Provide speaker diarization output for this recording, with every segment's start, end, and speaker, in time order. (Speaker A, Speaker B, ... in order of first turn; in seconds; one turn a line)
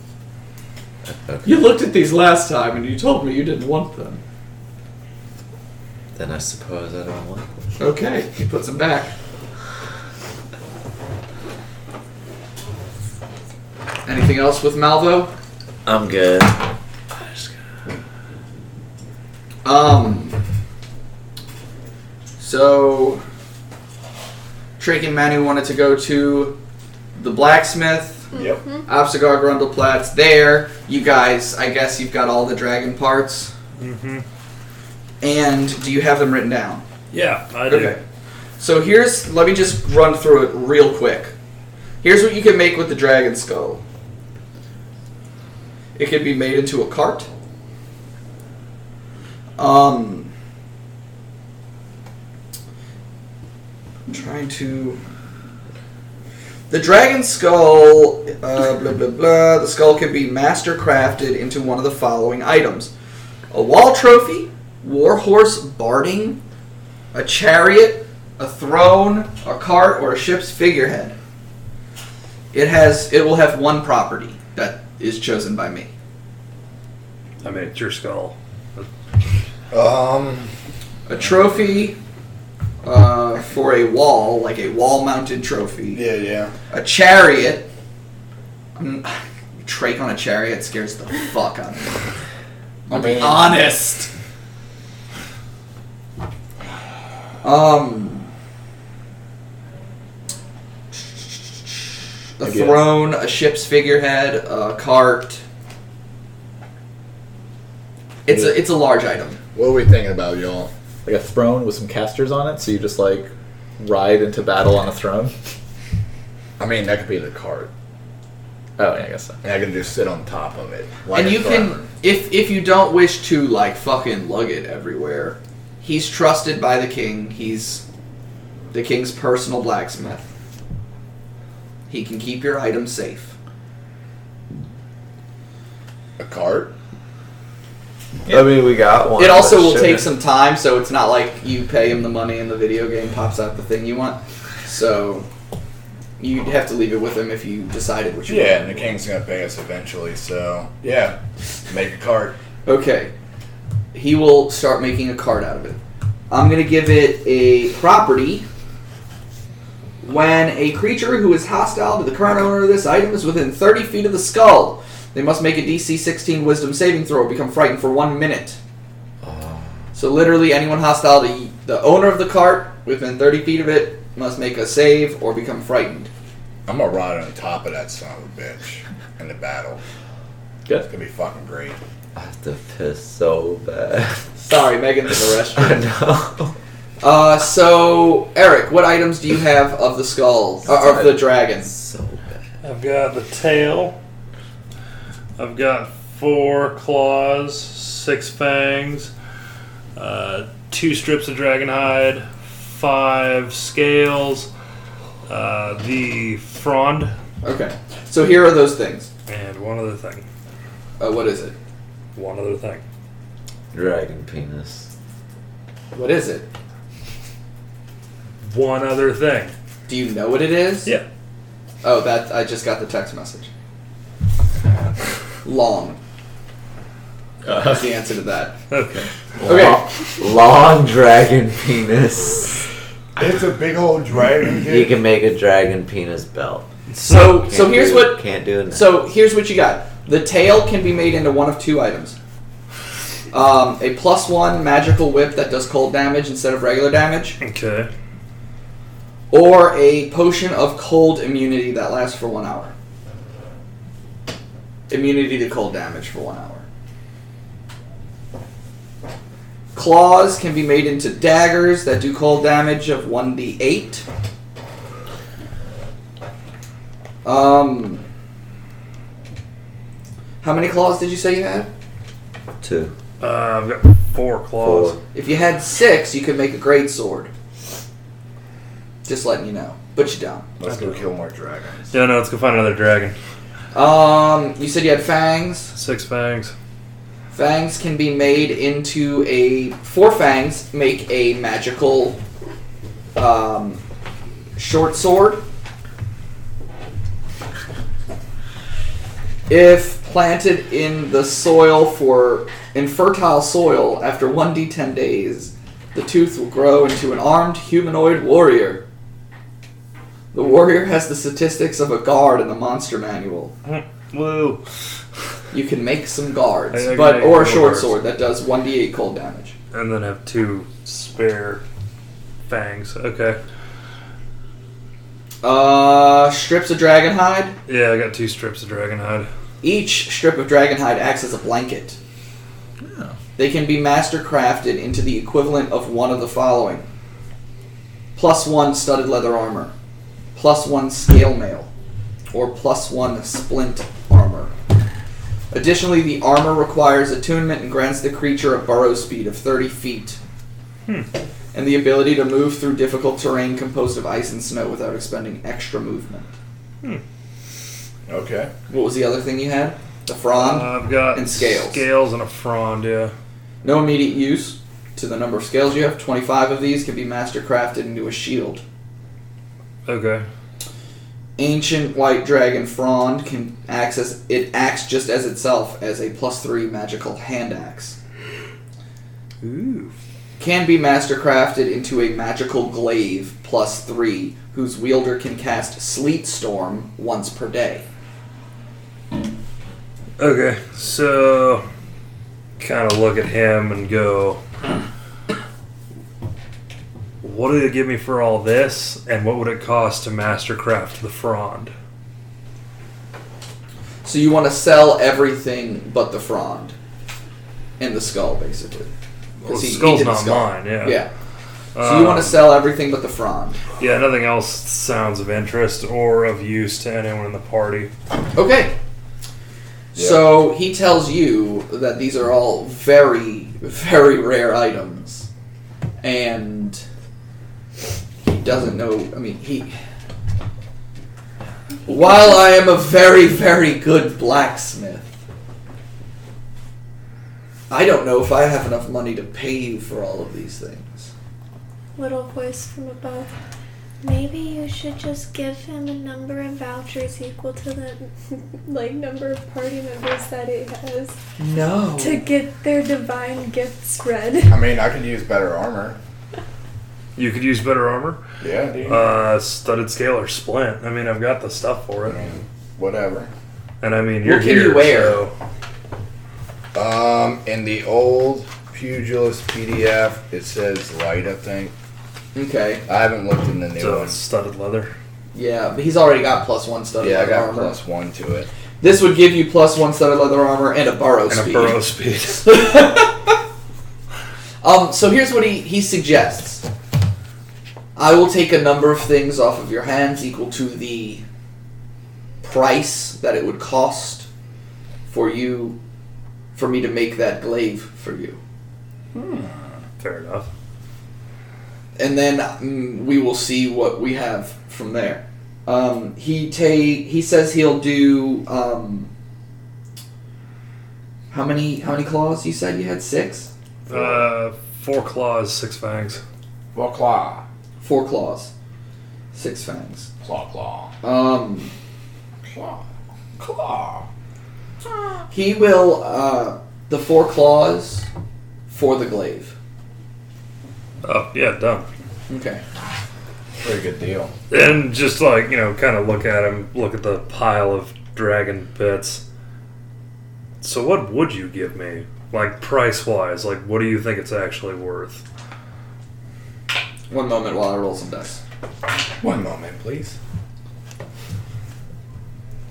Speaker A: 1.1-1.7
Speaker B: 1.4-4.2
Speaker A: 6.2-7.5
Speaker B: 7.8-9.1
Speaker B: 14.1-15.3
Speaker A: 15.8-17.5
Speaker B: 19.6-20.4
Speaker B: 22.4-23.2
Speaker B: 24.8-26.6
Speaker B: 27.2-28.3
Speaker C: 28.3-28.8
Speaker D: 28.3-28.6
Speaker B: 28.9-33.5
Speaker E: 33.8-34.2
Speaker B: 35.2-36.9
Speaker E: 37.1-38.0
Speaker B: 37.7-38.0
Speaker B: 38.6-41.4
Speaker B: 42.0-43.8
Speaker B: 46.0-47.3
Speaker B: 49.6-50.3
Speaker B: 54.1-55.0
Speaker B: 56.7-62.9
Speaker B: 63.5-66.4
Speaker B: 67.1-71.2
Speaker B: 72.5-75.9
Speaker E: 77.4-78.9
Speaker D: 79.7-80.5
Speaker B: 81.1-82.0
Speaker B: 82.8-86.0
Speaker D: 85.9-86.5
Speaker B: 86.7-87.7
Speaker B: 88.8-92.0
Speaker B: 92.9-94.1
Speaker D: 92.9-93.6
Speaker B: 97.4-98.3
Speaker B: 102.4-105.4
Speaker F: 102.4-102.9
Speaker B: 108.3-109.4
Speaker D: 108.3-108.6
Speaker D: 109.5-110.7
Speaker F: 111.0-115.3
Speaker D: 116.6-117.7
Speaker F: 118.8-119.4
Speaker D: 119.4-121.8
Speaker B: 121.1-127.8
Speaker B: 128.7-130.3
Speaker B: 131.9-133.3
Speaker D: 136.2-136.7
Speaker A: 138.3-140.1
Speaker B: 139.2-145.3
Speaker B: 146.2-149.0
Speaker D: 148.3-152.4
Speaker B: 152.7-153.1
Speaker B: 153.9-155.8
Speaker B: 156.3-158.5
Speaker B: 160.0-168.6
Speaker A: 169.2-169.7
Speaker B: 169.9-176.1
Speaker D: 176.7-179.8
Speaker D: 180.9-181.8
Speaker A: 182.2-184.3
Speaker B: 184.4-185.8
Speaker A: 185.6-186.6
Speaker B: 187.0-191.7
Speaker A: 190.8-192.4
Speaker E: 192.6-193.9
Speaker E: 195.4-199.1
Speaker E: 200.0-204.5
Speaker E: 205.3-207.1
Speaker B: 207.4-209.1
Speaker E: 209.3-210.2
Speaker B: 211.0-211.6
Speaker E: 212.2-212.8
Speaker A: 213.7-214.9
Speaker B: 215.9-216.5
Speaker E: 218.5-219.5
Speaker B: 219.9-220.9
Speaker B: 221.8-223.5
Speaker B: 225.4-226.0
Speaker F: 227.4-227.8
Speaker B: 227.6-228.6
Speaker E: 228.7-229.1
Speaker A: 229.4-232.7
Speaker B: 229.4-229.9
Speaker D: 233.2-235.0
Speaker A: 234.6-239.0
Speaker E: 236.9-237.4
Speaker B: 237.0-242.2
Speaker B: 243.3-247.4
Speaker E: 247.4-247.9
Speaker B: 249.3-252.7
Speaker B: 254.9-256.7
Speaker B: 259.7-264.1
Speaker B: 267.2-268.0
Speaker B: 270.4-271.7
Speaker A: 272.6-272.9
Speaker E: 273.2-275.0
Speaker A: 274.6-275.0
Speaker B: 275.1-277.3
Speaker B: 279.1-280.5
Speaker D: 280.6-281.9
Speaker E: 280.7-281.0
Speaker E: 281.9-283.2
Speaker B: 283.7-285.7
Speaker E: 285.8-286.5
Speaker B: 287.3-292.2
Speaker B: 293.2-293.8
Speaker B: 294.6-295.4
Speaker B: 299.5-308.8
Speaker B: 310.3-313.6
Speaker E: 313.6-314.6
Speaker B: 315.5-319.5
Speaker E: 316.7-318.0
Speaker E: 319.7-321.6
Speaker E: 322.5-323.4
Speaker B: 325.4-327.6
Speaker E: 327.7-329.3
Speaker B: 329.6-332.0
Speaker F: 332.9-333.1
Speaker B: 333.4-336.9
Speaker B: 338.2-339.7
Speaker B: 340.4-341.7
Speaker B: 342.3-344.5
Speaker B: 345.5-350.2
Speaker B: 351.5-356.3
Speaker D: 358.1-358.5
Speaker B: 358.7-361.8
Speaker E: 360.4-363.1
Speaker B: 363.6-368.6
Speaker E: 369.9-370.2
Speaker B: 371.4-378.0
Speaker E: 379.4-379.9
Speaker B: 380.4-387.9
Speaker E: 390.2-391.6
Speaker E: 392.6-394.4
Speaker E: 397.2-401.7
Speaker B: 404.0-406.8
Speaker B: 407.8-408.9
Speaker B: 409.4-411.1
Speaker E: 409.4-411.0
Speaker E: 411.8-412.5
Speaker B: 411.8-413.6
Speaker E: 413.8-417.9
Speaker B: 418.4-418.8
Speaker D: 419.9-420.3
Speaker B: 419.9-425.3
Speaker B: 426.0-426.8
Speaker B: 428.2-429.7
Speaker B: 431.9-435.1
Speaker B: 437.7-441.1
Speaker C: 442.0-443.3
Speaker C: 444.0-451.1
Speaker B: 451.4-452.2
Speaker C: 452.0-454.6
Speaker D: 454.5-456.0
Speaker E: 457.2-458.2
Speaker D: 458.4-459.2
Speaker E: 458.9-462.2
Speaker D: 462.0-463.3
Speaker E: 463.8-465.3
Speaker B: 464.2-465.2
Speaker D: 466.8-471.7
Speaker B: 472.4-472.8
Speaker D: 472.9-474.2
Speaker E: 473.8-474.9
Speaker B: 475.3-477.8
Speaker D: 477.0-478.5
Speaker B: 478.8-481.8
Speaker E: 481.3-482.8
Speaker B: 482.4-483.3
Speaker B: 484.6-486.7
Speaker B: 488.0-491.2
Speaker B: 492.4-494.3
Speaker B: 495.1-495.8
Speaker B: 496.6-498.4
Speaker D: 499.1-499.7
Speaker E: 500.0-500.5
Speaker B: 502.0-509.1
Speaker B: 511.3-513.5
Speaker E: 513.9-516.2
Speaker D: 513.9-514.3
Speaker D: 516.7-517.4
Speaker B: 517.8-518.5
Speaker B: 519.3-520.1
Speaker D: 520.2-520.9
Speaker B: 521.0-521.7
Speaker D: 522.5-522.8
Speaker D: 523.4-524.1
Speaker B: 525.3-528.1
Speaker B: 528.7-529.5
Speaker E: 531.0-531.9
Speaker B: 532.3-532.6
Speaker D: 533.6-534.3
Speaker E: 534.5-539.2
Speaker E: 540.6-545.2
Speaker B: 547.1-548.4
Speaker D: 549.2-550.2